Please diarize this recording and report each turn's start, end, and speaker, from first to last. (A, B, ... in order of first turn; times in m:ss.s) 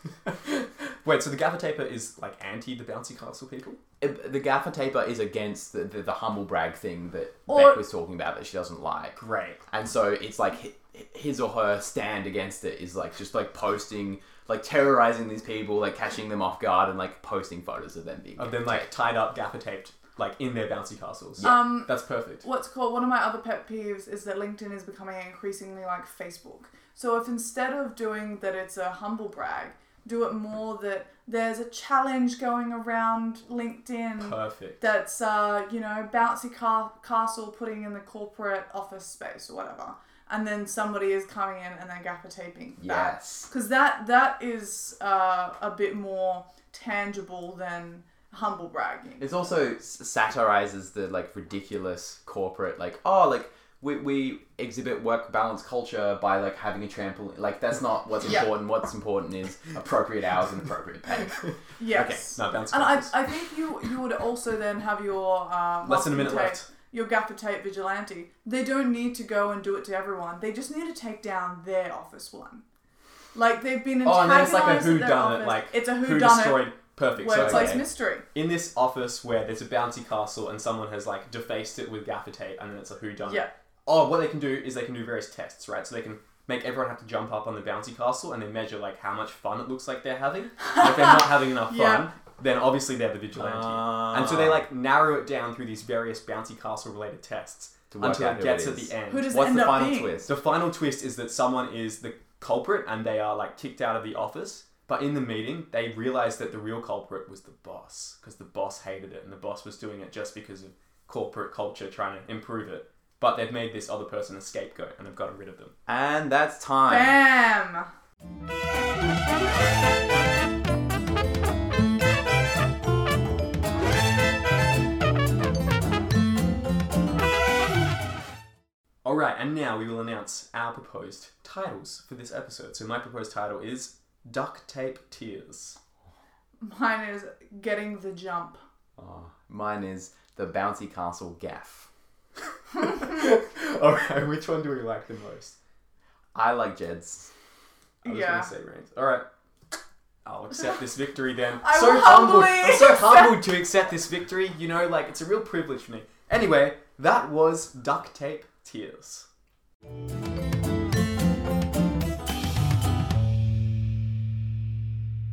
0:00.3-0:03.8 A
0:04.0-0:09.2 B
0:07.5-0:07.8 C
0:09.2-0:09.6 A
0:09.7-0:18.9 B
0:18.4-0:22.4 A
0:21.4-0:21.7 B
0:21.4-0:49.5 C
0:34.2-0:34.8 A
0:42.8-0:43.5 B
0:49.2-1:02.3 B
1:01.8-1:12.6 C
1:02.4-1:03.1 A
1:05.9-1:06.6 A
1:13.3-1:18.2 C
1:14.0-1:39.3 A
1:17.3-1:17.8 B
1:23.2-1:23.5 C
1:30.7-1:32.1 C
1:33.4-1:34.6 B
1:37.9-1:40.3 B
1:39.1-1:40.2 C
1:40.2-1:55.7 A
1:55.9-1:57.2 B
1:56.9-1:57.9 C
2:09.0-2:15.8 A
2:16.6-2:18.6 C
2:19.0-2:21.9 B
2:22.8-2:25.6 A
2:26.3-2:27.3 B
2:28.0-2:29.3 A
2:28.0-2:28.5 C
2:30.2-2:39.3 A
2:31.6-2:33.4 C